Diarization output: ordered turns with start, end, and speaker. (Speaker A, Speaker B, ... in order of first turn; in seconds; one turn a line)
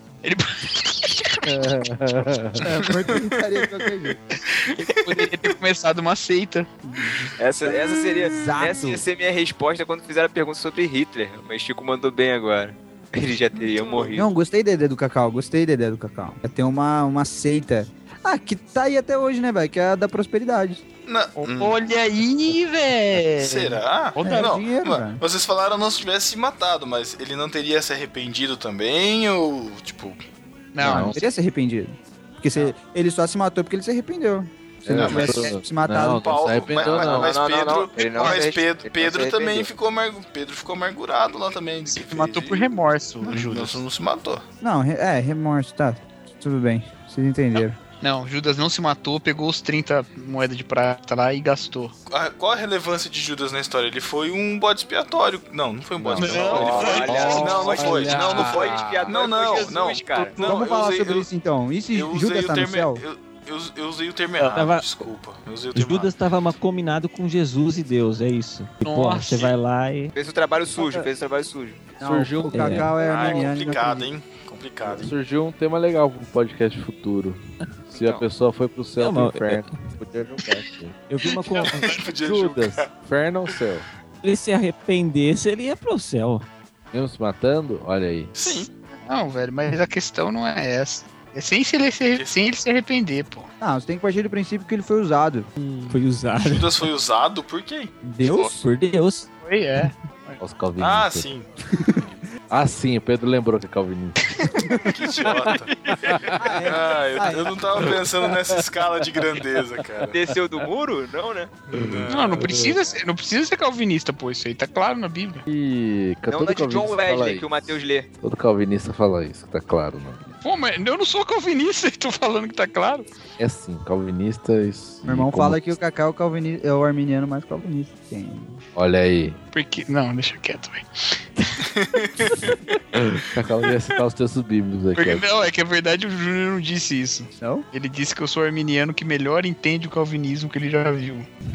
Speaker A: 0.2-1.5
Speaker B: 1.4-2.6
Speaker C: 2.6-4.2
Speaker D: 2.9-3.2
Speaker A: 4.5-7.2
Speaker C: 6.9-7.2
Speaker E: 7.4-14.3
Speaker C: 7.7-9.0
Speaker D: 13.8-14.1
Speaker C: 14.1-20.8
Speaker D: 21.1-21.8
Speaker A: 21.4-24.5
Speaker D: 23.3-30.2
Speaker C: 24.2-25.2
Speaker A: 30.7-31.2
Speaker B: 30.8-31.2
Speaker C: 30.9-36.6
Speaker B: 34.8-37.3
Speaker D: 34.9-35.5
Speaker D: 36.1-42.7
Speaker E: 36.8-39.7
Speaker A: 41.9-43.8
Speaker D: 43.2-44.4
Speaker C: 44.6-47.8
Speaker A: 48.0-51.9
Speaker D: 52.1-61.3
Speaker B: 56.0-59.0
Speaker A: 56.1-59.0
Speaker E: 56.5-60.5
Speaker C: 60.4-63.0
Speaker D: 61.9-66.1
Speaker F: 64.4-65.0
Speaker F: 65.7-70.1
Speaker A: 68.8-69.5
Speaker E: 70.1-71.8
Speaker C: 72.0-74.1
Speaker B: 72.0-73.0
Speaker F: 72.5-73.0
Speaker D: 73.0-75.1
Speaker B: 74.8-77.4
Speaker B: 77.9-81.0
Speaker E: 77.9-78.2
Speaker F: 79.0-79.9
Speaker F: 81.1-82.0
Speaker D: 81.5-82.9
Speaker B: 82.2-83.9
Speaker F: 84.2-86.5
Speaker B: 86.9-88.3
Speaker D: 88.3-88.7
Speaker A: 89.0-93.5
Speaker C: 93.6-95.5
Speaker F: 95.6-96.8
Speaker D: 96.4-97.9
Speaker C: 98.0-98.7
Speaker F: 98.3-99.3
Speaker A: 99.4-100.4
Speaker B: 100.4-101.3
Speaker D: 100.8-101.5
Speaker C: 101.7-102.0
Speaker B: 102.5-104.3
Speaker D: 104.8-105.7
Speaker B: 105.6-106.5
Speaker C: 106.4-107.5
Speaker D: 106.6-110.1
Speaker B: 107.8-108.2
Speaker E: 110.1-111.5
Speaker D: 111.7-112.5
Speaker B: 111.7-112.8
Speaker A: 112.1-115.4
Speaker B: 115.5-120.2
Speaker E: 116.3-118.1
Speaker A: 120.4-123.1
Speaker B: 123.4-125.8
Speaker C: 125.0-128.6
Speaker B: 128.7-129.4
Speaker A: 129.5-130.8
Speaker D: 131.6-132.5
Speaker B: 132.9-135.3
Speaker A: 134.9-141.3